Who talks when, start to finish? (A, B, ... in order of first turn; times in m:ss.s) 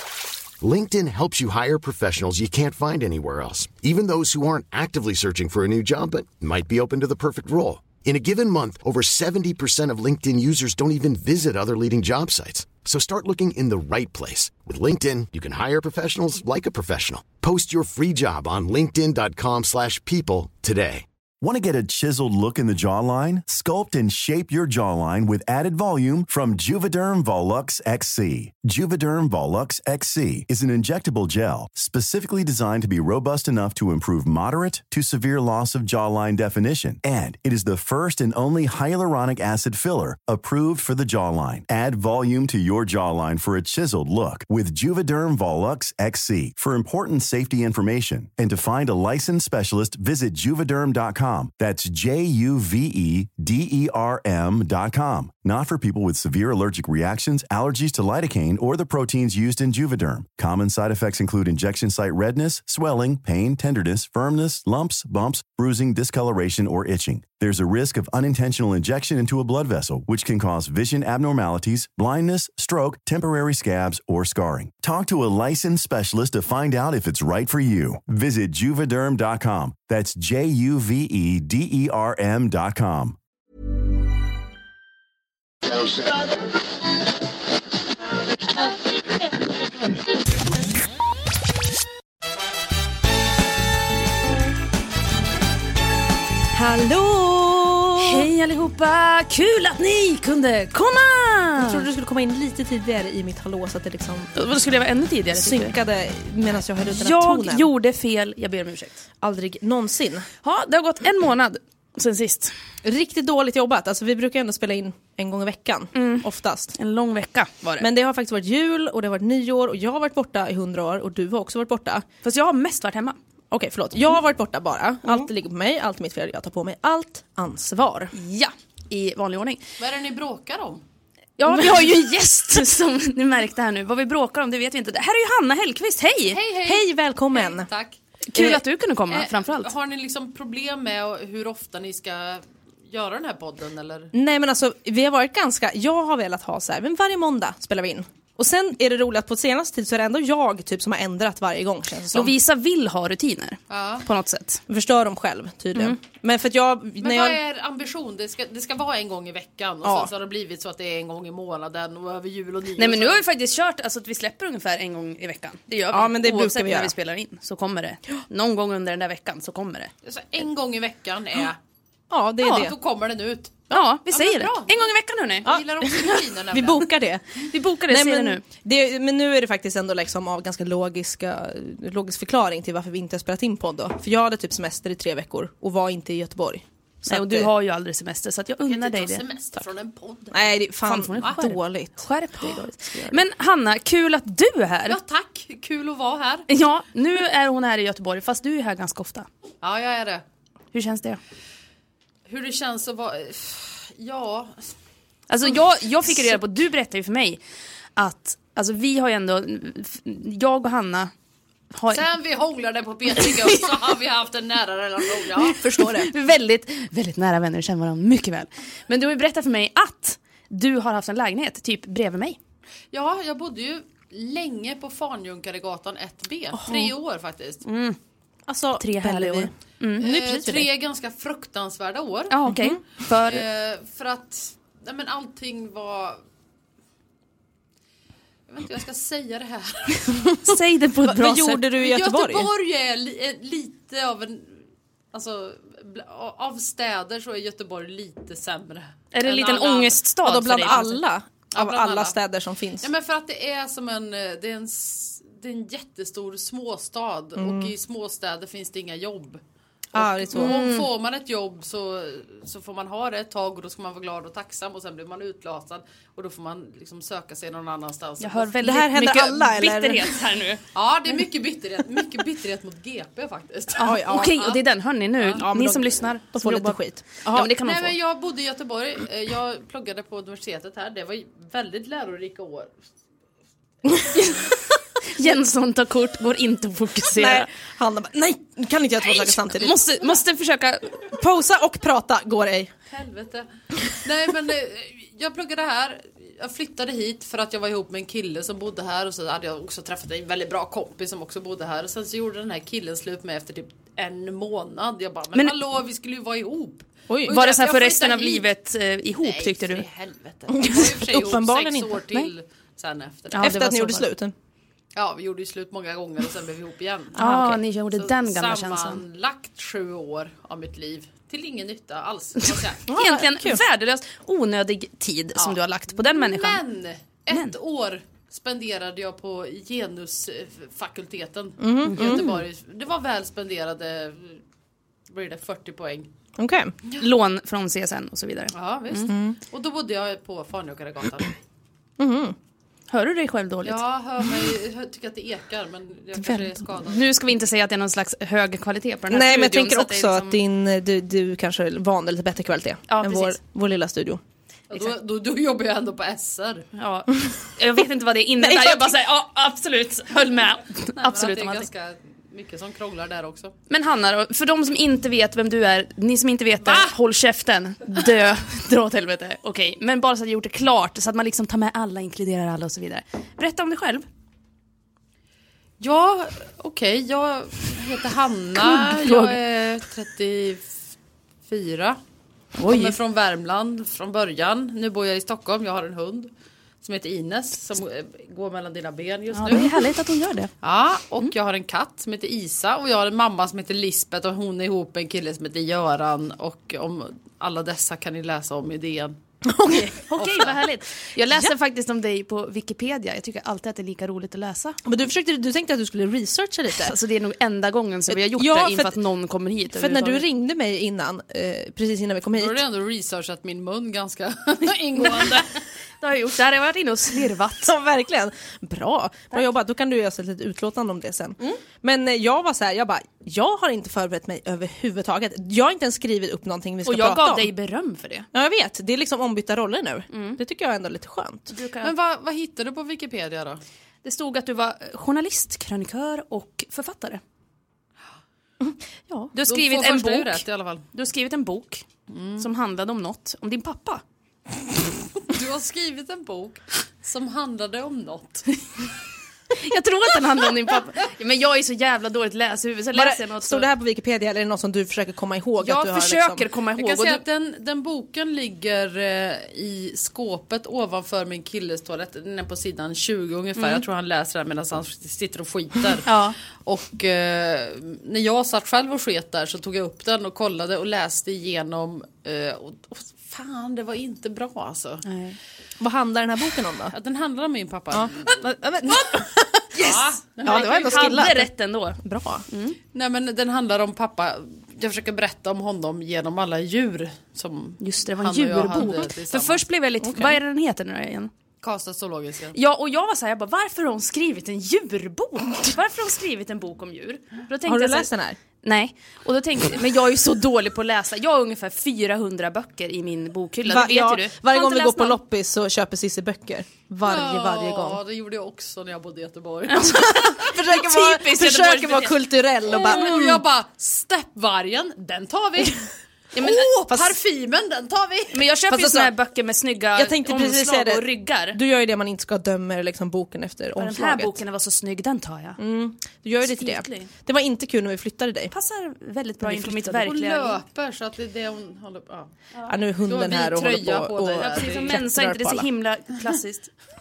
0:00.6-0:21.0 A
0:21.4-1:23.2 B
1:36.6-1:38.3 C
1:37.8-1:41.9 D
1:41.6-1:44.3 C
1:44.3-1:45.7 D
1:45.3-1:47.7 C
1:46.9-1:49.0 D
1:49.2-1:50.3 C
1:50.4-1:52.5 D
1:52.8-1:56.7 C
1:55.9-1:57.9 D
1:57.8-2:02.0 C
2:02.2-2:03.2 D
2:03.5-2:08.1 C
2:08.1-2:09.6 D
2:09.8-2:10.8 E
2:11.4-2:16.4 D
2:11.4-2:11.9 C
2:16.3-2:18.0 E
2:16.6-2:17.7 C
2:18.3-2:19.7 D
2:18.3-2:18.6 C
2:19.1-2:24.1 E
2:24.1-2:32.3 C
2:32.1-2:34.6 D
2:33.7-2:34.0 E
2:34.7-2:37.4 C
2:37.0-2:43.2 E
2:39.8-2:40.1 C
2:42.8-2:49.9 D
2:45.9-2:46.9 C
2:50.0-2:51.6 E
2:52.1-2:52.8 C
2:52.4-2:52.7 D
2:52.4-2:56.8 E
2:53.7-2:55.5 D
2:55.4-3:07.5 C
2:57.5-2:58.4 D
3:07.0-3:09.2 D
3:08.7-3:10.6 E
3:10.3-3:13.2 C
3:10.8-3:15.0 D
3:11.2-3:11.4 E
3:14.8-3:16.5 E
3:16.5-3:19.3 D
3:19.6-3:20.2 E
3:20.7-3:21.2 D
3:22.3-3:24.7 E
3:25.3-3:27.4 D
3:28.0-3:31.1 D
3:31.7-3:32.0 D
3:31.9-3:35.6 E
3:35.4-3:36.1 C
3:35.8-3:42.4 D
3:42.9-3:47.6 E
3:47.6-3:48.0 D
3:48.5-3:50.7 C
3:48.8-3:50.1 D
3:50.0-3:52.3 E
3:52.3-3:53.4 D
3:52.4-3:52.8 C
3:53.2-3:56.2 E
3:58.5-4:00.4 E
4:00.4-4:01.7 D
4:01.0-4:02.5 C
4:01.8-4:10.0 E
4:09.1-4:11.0 D
4:10.2-4:12.9 C
4:11.5-4:12.2 E
4:12.8-4:19.4 E
4:17.4-4:17.7 C
4:19.9-4:20.6 C
4:19.9-4:28.5 E
4:20.3-4:20.9 D
4:28.2-4:30.6 D
4:28.6-4:30.2 C
4:30.7-4:34.6 E
4:33.8-4:34.5 C
4:33.8-4:37.9 D
4:35.2-4:35.4 E
4:35.4-4:37.5 C
4:37.5-4:42.7 E
4:44.1-4:47.5 D
4:47.1-4:49.8 C
4:49.0-4:51.1 D
4:51.1-4:52.7 C
4:52.9-5:08.5 E
5:05.3-5:05.6 D
5:07.1-5:07.4 C
5:07.2-5:09.8 D
5:09.2-5:13.6 E
5:10.5-5:12.0 C
5:13.3-5:14.1 D
5:13.4-5:14.3 C
5:14.9-5:17.2 E
5:17.1-5:17.6 C
5:17.1-5:19.0 D
5:17.9-5:22.8 E
5:22.4-5:26.6 D
5:22.9-5:23.6 C
5:25.4-5:34.4 E
5:27.3-5:27.6 D
5:31.6-5:32.4 C
5:31.8-5:32.4 D
5:35.1-5:36.1 E
5:36.4-5:36.7 C
5:36.9-5:39.1 D
5:38.5-5:41.4 E
5:39.1-5:39.4 C
5:42.0-5:42.4 C
5:42.9-5:43.8 D
5:43.6-5:47.0 E
5:46.2-5:46.6 C
5:46.8-5:50.4 D
5:49.1-5:54.2 C
5:52.9-5:53.4 D
5:54.7-5:56.7 E
5:56.8-6:01.7 D
5:58.4-5:59.0 C
6:01.0-6:03.5 E
6:03.7-6:14.0 D
6:06.6-6:06.9 E
6:15.8-6:20.7 E
6:18.6-6:19.4 D
6:21.5-6:22.0 E
6:22.6-6:23.0 D
6:22.6-6:26.3 E
6:26.8-6:29.8 E
6:29.3-6:30.5 D
6:30.6-6:39.2 E
6:39.4-6:40.0 C
6:39.7-6:44.8 D
6:40.2-6:40.6 E
6:44.8-6:47.0 C
6:46.8-6:50.2 D
6:48.1-6:49.0 C
6:49.7-6:52.6 C
6:52.3-6:55.5 E
6:55.0-6:55.5 D
6:56.0-6:57.7 D
6:57.6-7:07.5 C
7:06.8-7:08.3 D
7:08.3-7:11.5 C
7:10.1-7:10.4 D
7:11.5-7:11.9 D
7:11.8-7:13.6 E
7:14.0-7:17.2 D
7:18.6-7:19.3 C
7:19.3-7:21.8 D
7:19.5-7:20.8 E
7:22.1-7:22.4 E
7:22.4-7:24.0 D
7:25.2-7:28.6 E
7:29.5-7:33.7 D
7:32.9-7:36.5 C
7:35.6-7:37.2 D
7:36.7-7:46.1 E
7:46.0-7:46.4 D
7:46.6-7:55.0 E
7:55.0-7:55.4 D
7:55.8-7:56.9 C
7:56.9-7:58.4 E
7:57.9-7:59.7 C
7:59.7-8:01.2 E
7:59.8-8:02.0 D
8:00.4-8:02.4 C
8:02.5-8:02.8 D
8:02.9-8:09.6 E
8:07.8-8:11.3 D
8:10.0-8:10.4 C
8:11.6-8:12.6 E
8:12.5-8:25.2 D
8:17.6-8:18.4 C
8:23.6-8:28.0 C
8:27.0-8:30.5 E
8:29.7-8:33.0 D
8:30.0-8:33.4 C
8:32.7-8:38.5 E
8:36.3-8:37.0 D
8:38.3-8:41.6 D
8:38.7-8:39.1 C
8:39.9-8:44.4 C
8:43.8-8:45.6 D
8:45.6-8:48.5 C
8:46.4-8:47.1 D
8:48.5-8:50.6 D
8:49.4-8:50.1 C
8:49.8-8:52.3 E
8:52.7-8:55.7 C
8:53.0-8:55.0 E
8:54.4-8:56.7 D